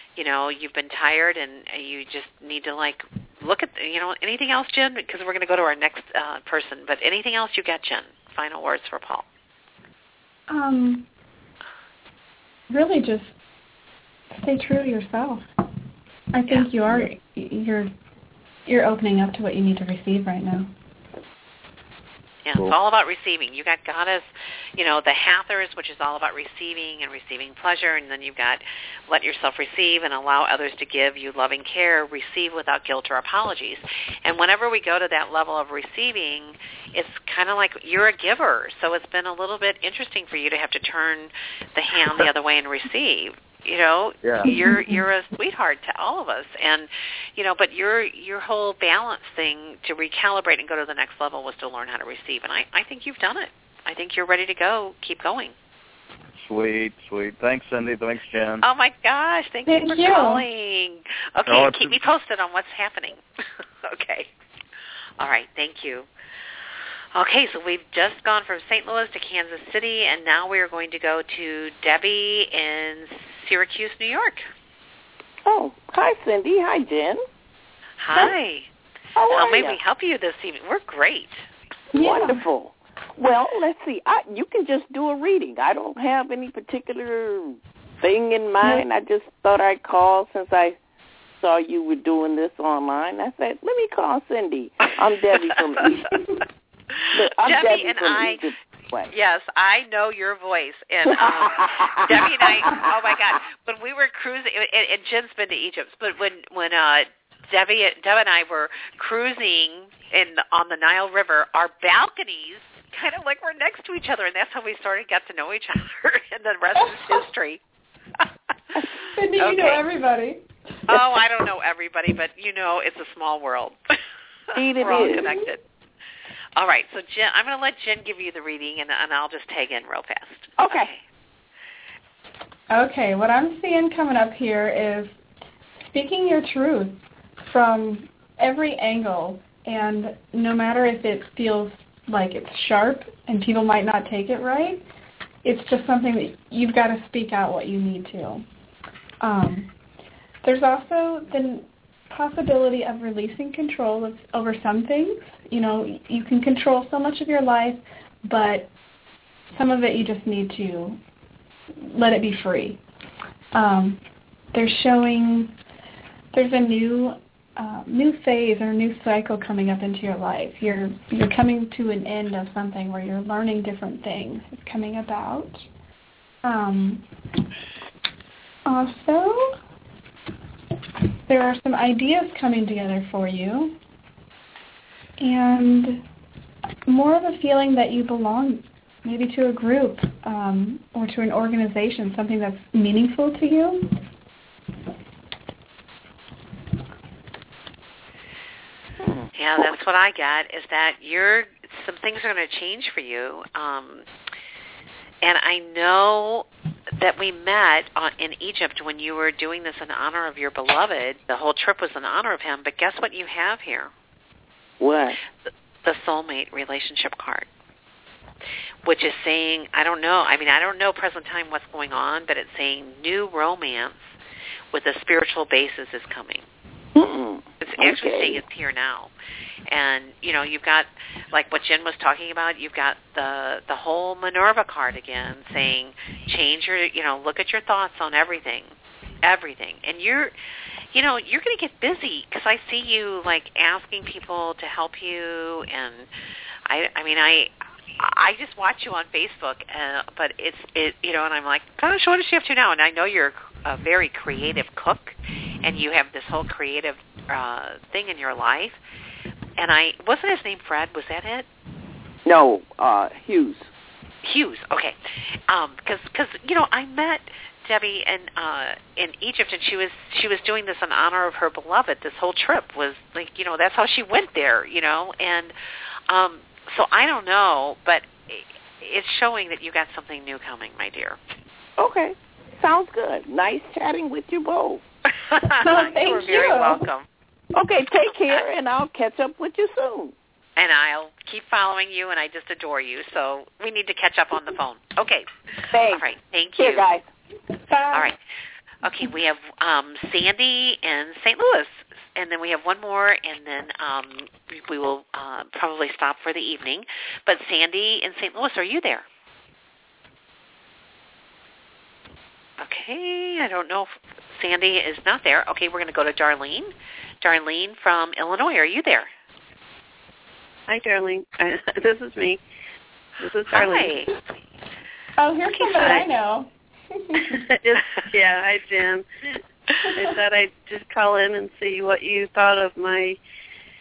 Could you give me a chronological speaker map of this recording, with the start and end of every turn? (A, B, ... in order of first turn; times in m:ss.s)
0:00.2-0:09.3 A
0:10.5-0:11.1 B
0:12.7-0:13.4 B
0:14.3-0:15.5 B
0:16.3-0:17.9 B
0:18.7-0:20.7 B
0:22.4-0:24.3 A
0:24.8-0:55.5 A
0:44.2-0:44.5 C
0:44.4-0:45.0 B
0:56.4-0:58.6 C
0:58.6-1:03.2 A
0:59.7-1:00.5 B
1:01.5-1:02.0 C
1:03.8-1:04.3 A
1:05.2-1:06.1 A
1:07.1-1:14.4 A
1:15.4-1:17.2 D
1:18.0-1:18.7 A
1:19.2-1:19.8 D
1:19.3-1:21.4 A
1:21.9-1:30.8 D
1:21.9-1:22.4 B
1:31.4-1:36.1 D
1:37.1-1:39.1 D
1:37.3-1:38.4 A
1:39.1-1:57.6 A
1:41.1-1:42.8 D
1:59.1-2:00.4 B
1:59.4-1:59.8 A
2:00.9-2:04.0 A
2:04.6-2:05.4 D
2:04.6-2:05.6 A
2:04.9-2:05.4 B
2:06.6-2:11.0 A
2:10.6-2:10.9 D
2:12.7-2:15.1 B
2:15.8-2:24.8 B
2:25.4-2:28.5 B
2:29.2-2:29.7 B
2:30.4-2:38.7 B
2:39.5-2:41.0 B
2:41.8-2:42.8 B
2:43.5-2:44.0 B
2:44.5-2:45.6 B
2:46.3-2:55.6 B
2:56.4-2:57.1 B
2:58.6-2:59.6 B
3:01.3-3:03.8 B
3:05.2-3:06.0 B
3:06.9-3:14.0 B
3:19.4-3:24.1 A
3:25.2-3:26.5 A
3:27.0-3:33.9 A
3:34.8-3:35.2 D
3:35.4-3:37.5 A
3:38.8-3:44.1 A
3:44.7-3:46.5 A
3:47.0-3:48.4 D
3:47.6-3:49.1 A
3:49.7-4:00.3 A
4:00.9-4:06.1 A
4:06.7-4:18.8 A
4:19.6-4:21.5 A
4:22.2-4:23.7 D
4:24.2-4:25.0 A
4:25.5-4:35.6 A
4:36.1-4:41.2 A
4:41.8-4:44.8 D
4:45.3-4:47.1 A
4:45.6-4:46.8 B
4:47.5-4:50.1 D
4:48.1-4:48.4 A
4:50.6-4:55.3 A
4:55.7-4:57.0 D
4:55.8-4:56.9 A
4:57.7-4:58.1 B
4:57.9-4:58.2 A
4:58.8-5:09.0 A
5:12.6-5:16.7 A
5:17.2-5:19.1 A
5:20.7-5:22.4 E
5:23.2-5:24.0 E
5:23.5-5:24.1 A
5:25.2-5:27.4 B
5:25.6-5:26.1 E
5:27.3-5:33.2 E